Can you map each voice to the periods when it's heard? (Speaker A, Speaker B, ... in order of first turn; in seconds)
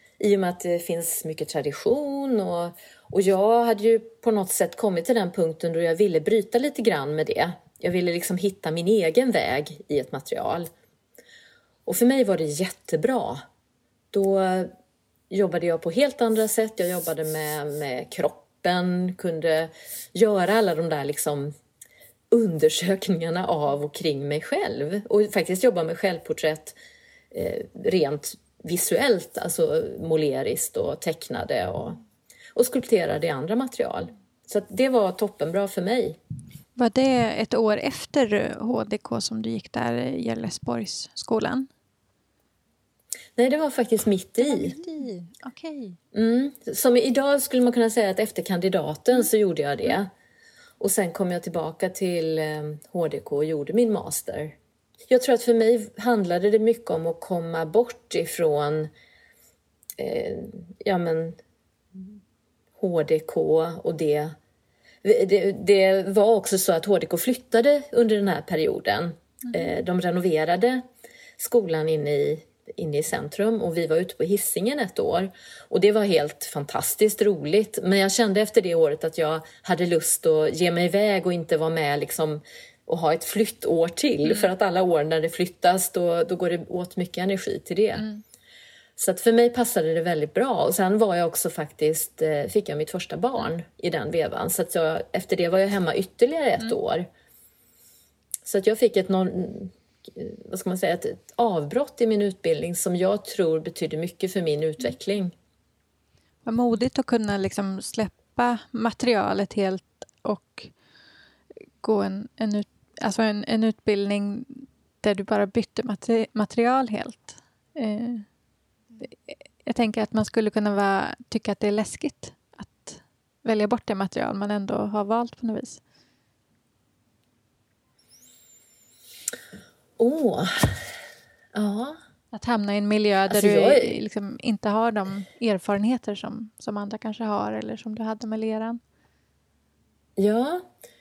Speaker A: 0.2-10.7, 11.9-13.4, 14.1-14.7, 15.3-21.5, 22.3-26.8, 27.3-32.0, 32.5-36.2, 43.4-44.8, 46.1-50.1, 50.8-54.6, 55.1-58.9, 60.0-61.4, 62.8-64.3, 65.0-70.8, 71.4-88.1, 89.0-97.1, 98.5-105.3, 130.0-130.9, 131.5-132.0, 133.3-134.0, 140.2-140.7
Speaker B: 36.8-41.7, 44.4-46.0, 106.5-110.7, 111.8-118.3, 119.0-125.8, 132.3-138.8